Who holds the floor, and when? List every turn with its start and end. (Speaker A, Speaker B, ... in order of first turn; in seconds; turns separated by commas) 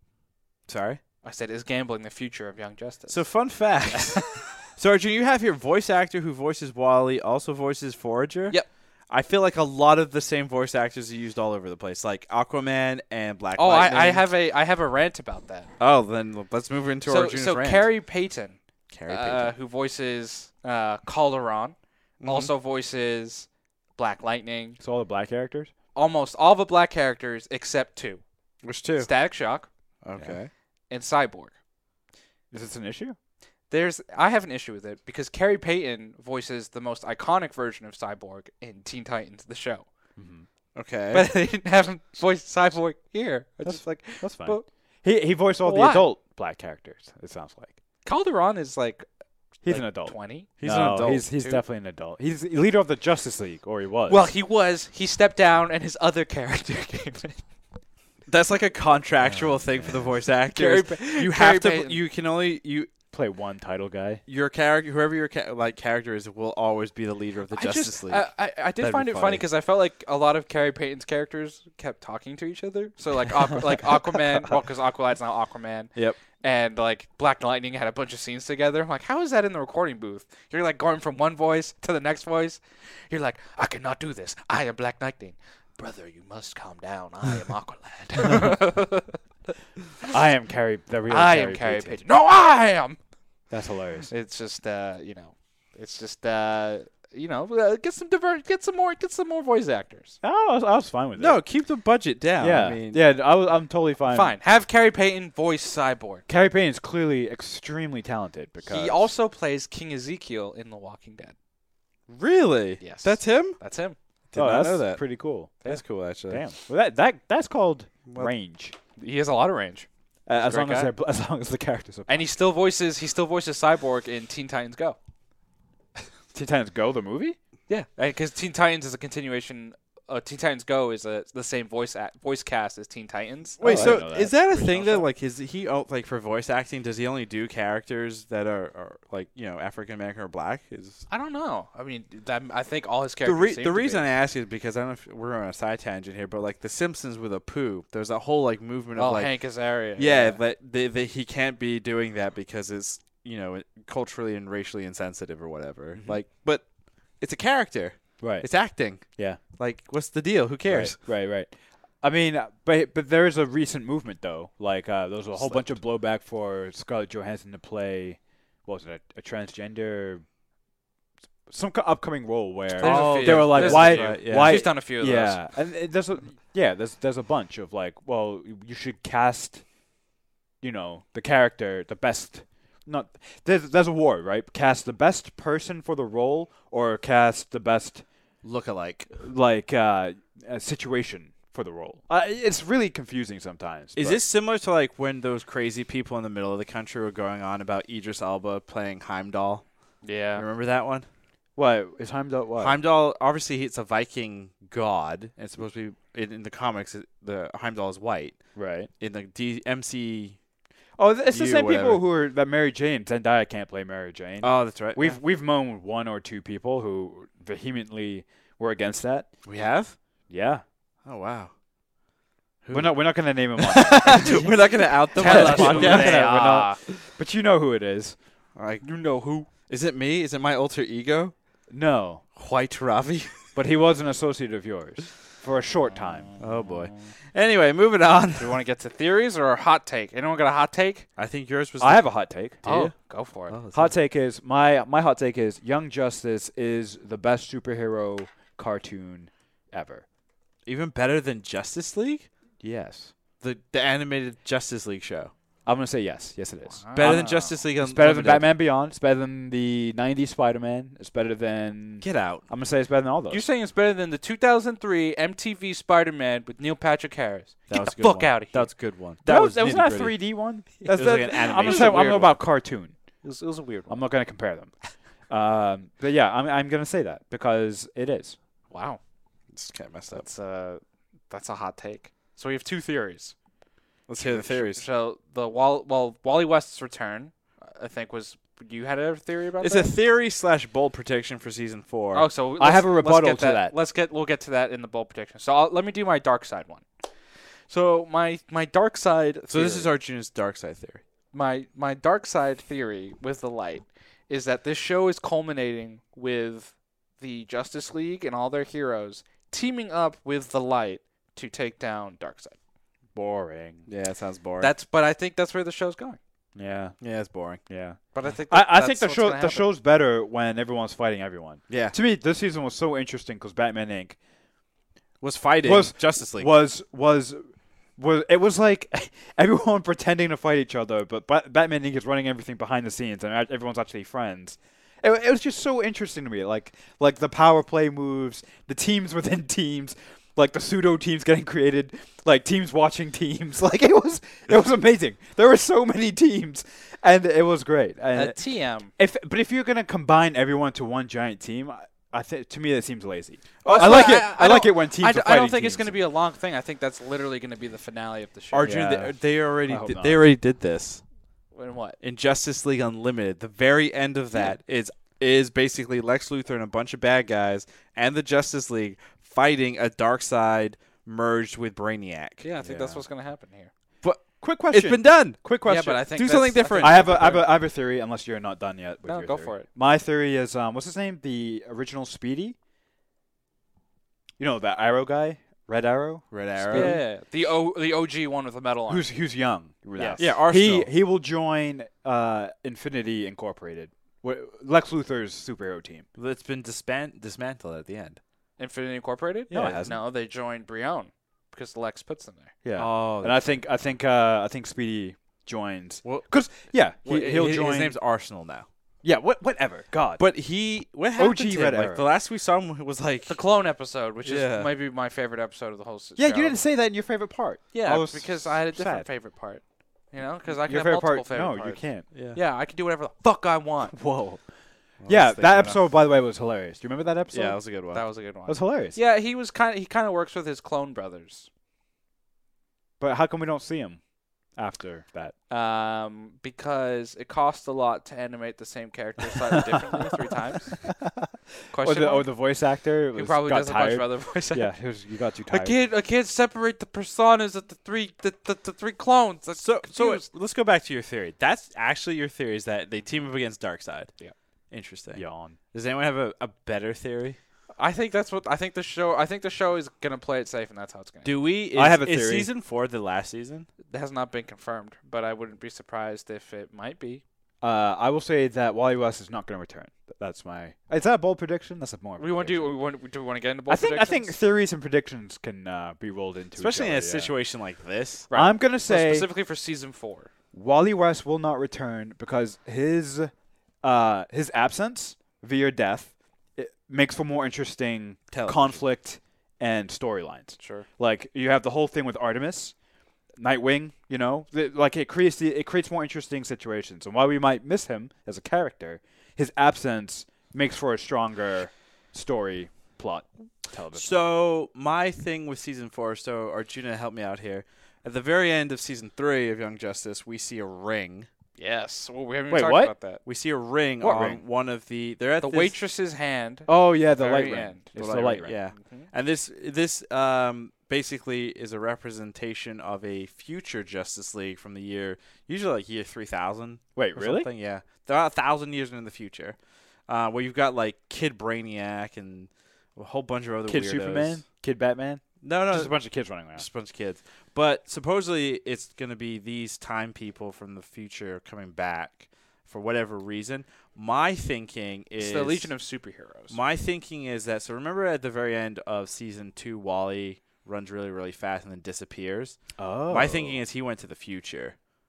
Speaker A: 0.7-1.0, Speaker B: 1.2-4.4, Speaker A: 3.1-14.3, Speaker B: 13.6-15.7, Speaker A: 15.8-17.9, Speaker B: 17.1-24.8, Speaker A: 18.9-19.6, Speaker A: 22.2-22.5, Speaker C: 24.8-25.7, Speaker B: 25.9-28.2, Speaker A: 28.6-29.1, Speaker B: 29.0-29.7, Speaker A: 30.0-30.5, Speaker B: 30.9-31.5, Speaker C: 32.5-33.2, Speaker B: 33.7-39.9, Speaker C: 40.2-40.5, Speaker A: 40.8-41.3, Speaker B: 41.1-44.7, Speaker C: 43.6-47.8, Speaker B: 45.6-46.1, Speaker B: 48.0-49.1, Speaker B: 49.6-50.5, Speaker C: 49.7-54.3, Speaker A: 50.6-51.3, Speaker B: 51.1-51.6, Speaker B: 54.1-57.4, Speaker A: 58.3-62.9, Speaker C: 59.3-60.1, Speaker B: 60.5-62.0, Speaker C: 63.1-64.2, Speaker A: 64.3-68.3, Speaker B: 67.5-89.2, Speaker A: 68.8-69.5, Speaker C: 90.0-92.0, Speaker B: 91.1-93.0, Speaker C: 93.5-94.1, Speaker B: 94.1-100.2, Speaker C: 100.2-101.4, Speaker A: 101.2-103.0, Speaker C: 102.4-104.3, Speaker B: 104.1-106.2, Speaker C: 106.3-109.1, Speaker B: 108.7-111.3, Speaker A: 112.1-113.6, Speaker B: 112.8-114.0, Speaker A: 114.3-115.0, Speaker C: 114.4-115.6, Speaker A: 115.7-116.4, Speaker C: 116.3-118.8, Speaker A: 118.1-118.3, Speaker B: 119.0-119.9, Speaker C: 120.3-122.2, Speaker B: 120.4-120.9, Speaker B: 122.1-125.0, Speaker C: 126.3-127.4, Speaker B: 127.7-135.1, Speaker A: 133.6-141.1, Speaker C: 133.6-134.3, Speaker B: 141.1-144.1, Speaker A: 143.2-149.4, Speaker B: 149.0-150.4, Speaker A: 150.0-156.7, Speaker A: 157.2-161.0, Speaker C: 158.2-158.5, Speaker C: 159.0-159.4, Speaker C: 160.7-170.2, Speaker A: 165.3-165.8, Speaker C: 171.5-179.6, Speaker B: 172.8-175.4, Speaker A: 172.8-174.7, Speaker C: 180.6-188.0, Speaker A: 188.4-189.1, Speaker C: 189.2-194.2, Speaker A: 194.0-199.7, Speaker B: 200.0-200.4, Speaker A: 200.3-201.1, Speaker C: 201.6-202.8, Speaker A: 202.6-208.4, Speaker C: 208.6-208.9, Speaker A: 209.0-210.4, Speaker C: 211.0-219.3, Speaker A: 211.3-212.0, Speaker A: 214.4-215.2, Speaker A: 219.4-220.0, Speaker C: 220.3-220.6, Speaker A: 221.1-221.5, Speaker A: 222.6-223.0, Speaker C: 222.7-228.2, Speaker A: 223.6-226.2, Speaker B: 225.2-226.8, Speaker A: 228.6-228.8, Speaker B: 228.8-229.5, Speaker A: 229.7-231.3, Speaker C: 231.7-232.2, Speaker A: 232.4-233.5, Speaker C: 233.6-236.3, Speaker B: 235.9-237.1, Speaker A: 236.4-238.6, Speaker B: 238.4-241.1, Speaker A: 241.2-242.1, Speaker C: 241.8-242.6, Speaker A: 242.6-242.9, Speaker B: 242.7-243.6, Speaker A: 243.5-243.9, Speaker C: 243.7-250.1, Speaker A: 250.7-252.3, Speaker C: 252.6-253.1, Speaker A: 253.4-255.3, Speaker C: 255.7-257.2, Speaker B: 256.8-257.6, Speaker A: 256.9-258.5, Speaker C: 257.8-263.4, Speaker A: 262.0-262.4, Speaker B: 263.3-268.7, Speaker A: 267.7-270.2, Speaker C: 269.3-272.9, Speaker A: 270.9-272.4, Speaker B: 271.3-272.4, Speaker B: 273.2-274.0, Speaker C: 273.9-274.7, Speaker C: 275.3-278.4, Speaker B: 278.7-279.0, Speaker A: 279.5-280.2, Speaker B: 280.1-283.3, Speaker A: 284.1-284.8, Speaker B: 284.2-289.9, Speaker A: 289.6-292.3, Speaker B: 292.1-296.9, Speaker C: 292.6-293.8, Speaker B: 297.7-299.9, Speaker A: 299.5-301.0, Speaker B: 301.3-312.6, Speaker C: 313.1-313.9, Speaker A: 313.9-314.7, Speaker B: 314.6-316.2, Speaker C: 316.6-317.0, Speaker A: 317.0-317.6, Speaker C: 317.7-324.2, Speaker B: 318.1-319.7, Speaker A: 321.7-322.0, Speaker A: 325.2-326.5, Speaker C: 325.6-348.4, Speaker B: 348.1-348.9, Speaker C: 349.0-356.0, Speaker B: 353.6-358.7, Speaker A: 358.5-361.0, Speaker C: 358.6-360.2, Speaker B: 361.5-362.0, Speaker A: 362.0-372.4, Speaker B: 372.4-373.7, Speaker C: 372.6-373.0, Speaker A: 374.0-375.4, Speaker C: 374.4-376.2, Speaker B: 375.6-377.5, Speaker A: 376.1-377.4, Speaker C: 376.8-382.6, Speaker B: 379.1-379.7, Speaker C: 384.4-387.0, Speaker A: 386.3-387.0, Speaker B: 386.7-389.1, Speaker C: 388.9-396.1, Speaker B: 390.0-390.2, Speaker A: 390.2-390.9, Speaker A: 396.1-398.2, Speaker B: 398.6-402.5, Speaker C: 399.5-399.9, Speaker A: 399.5-399.9, Speaker C: 402.6-408.0, Speaker A: 402.8-403.4, Speaker A: 407.0-408.7, Speaker C: 409.0-410.2, Speaker A: 410.2-413.4, Speaker C: 411.2-412.1, Speaker B: 413.3-416.6, Speaker A: 414.2-414.7, Speaker C: 416.2-419.1, Speaker B: 417.7-424.0, Speaker C: 420.6-422.1, Speaker A: 422.1-422.4, Speaker C: 423.9-424.4, Speaker A: 425.0-425.9, Speaker C: 425.1-427.6, Speaker A: 427.3-428.0, Speaker B: 427.9-431.5, Speaker C: 428.5-429.0, Speaker C: 433.0-434.0, Speaker C: 434.6-435.4, Speaker B: 435.5-440.9, Speaker C: 439.4-440.2, Speaker C: 440.8-445.8, Speaker B: 441.7-442.3, Speaker B: 443.1-444.8, Speaker B: 445.5-450.3, Speaker A: 449.5-454.1, Speaker A: 454.7-457.4, Speaker C: 455.1-455.6, Speaker B: 457.8-461.4, Speaker A: 461.2-463.7, Speaker C: 461.7-462.5, Speaker B: 463.9-467.2, Speaker C: 467.6-472.8, Speaker B: 472.2-474.4, Speaker C: 473.7-477.3, Speaker A: 476.6-478.3, Speaker B: 478.3-480.3, Speaker C: 478.3-479.3, Speaker C: 480.5-483.3, Speaker C: 483.8-492.8, Speaker A: 488.3-488.8, Speaker B: 490.6-490.9, Speaker C: 493.4-504.2, Speaker A: 503.9-511.3, Speaker B: 511.6-513.2, Speaker C: 512.5-512.9, Speaker A: 513.2-515.8, Speaker C: 514.0-514.4, Speaker B: 515.4-518.0, Speaker C: 516.7-518.6, Speaker A: 518.0-529.6, Speaker B: 518.5-519.1, Speaker C: 527.0-527.5, Speaker A: 530.1-534.4, Speaker C: 533.7-536.7, Speaker A: 535.4-536.0, Speaker A: 536.6-545.7, Speaker B: 545.2-546.6, Speaker A: 546.5-554.8, Speaker C: 552.8-553.6